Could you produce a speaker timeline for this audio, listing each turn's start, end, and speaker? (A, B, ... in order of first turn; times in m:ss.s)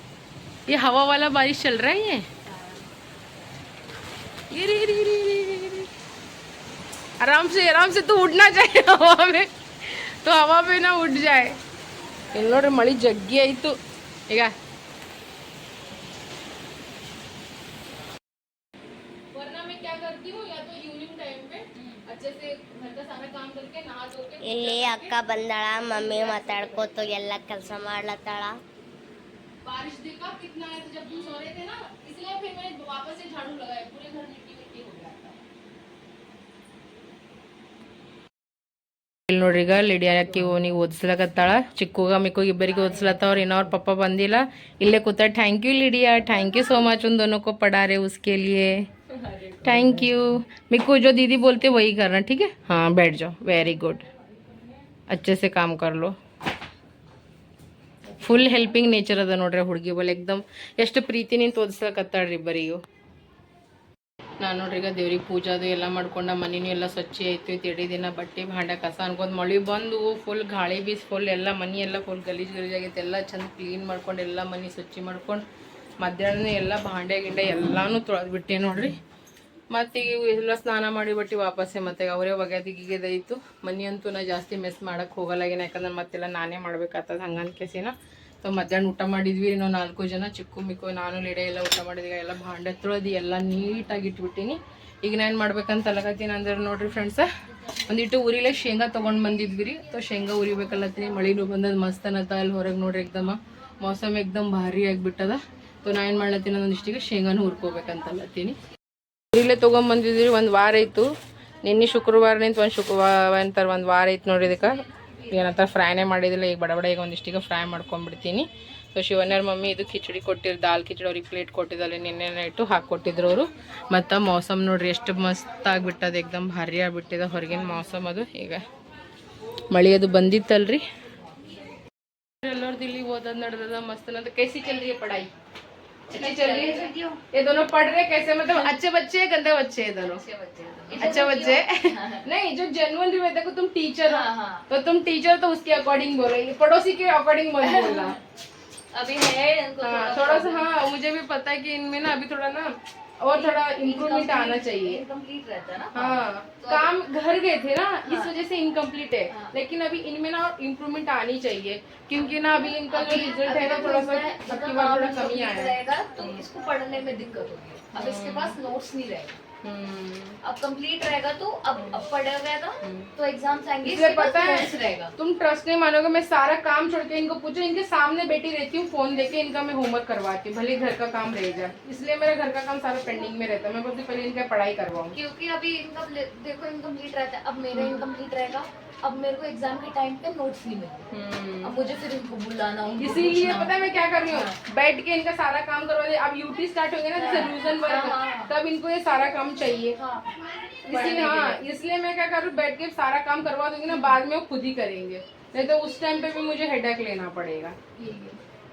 0:00.7-0:02.2 A
0:04.5-0:05.9 A
0:07.2-0:11.6 A
0:12.3-0:13.8 A
0:14.3-0:14.5 A
0:19.3-0:25.1 A
0:24.4-0:28.6 B
0:25.8-0:27.1 A
0:29.6-0:35.4 A
0:39.3-0:48.8 A
0:49.2-0:50.0 C
0:49.6-0:54.0 A
0:55.1-0:56.1 A
0:58.2-1:02.8 A
1:04.4-1:15.4 A
1:16.0-1:18.9 A
1:19.7-1:37.3 A
1:37.8-1:48.6 A
1:49.3-1:51.1 A
1:51.6-2:08.6 A
2:09.7-2:10.8 A
2:12.4-2:15.3 A
2:16.1-2:17.2 C
2:16.1-2:20.2 A
2:20.0-2:22.2 C
2:21.0-2:28.2 A
2:24.0-2:24.6 C
2:27.6-2:28.2 C
2:28.9-2:30.7 C
2:29.8-2:35.0 A
2:33.3-2:36.9 C
2:35.9-2:46.4 A
2:38.0-2:38.3 C
2:42.2-2:49.4 C
2:47.9-2:48.6 A
2:49.6-2:50.4 A
2:50.4-2:55.1 C
2:52.8-2:53.1 A
2:53.8-3:05.2 A
3:05.1-3:11.1 C
3:07.8-3:08.0 A
3:11.1-3:11.7 A
3:11.6-3:14.5 C
3:13.0-3:20.0 A
3:17.1-3:18.5 C
3:19.9-3:21.6 C
3:20.9-3:27.8 A
3:23.9-3:24.2 C
3:28.0-3:28.4 C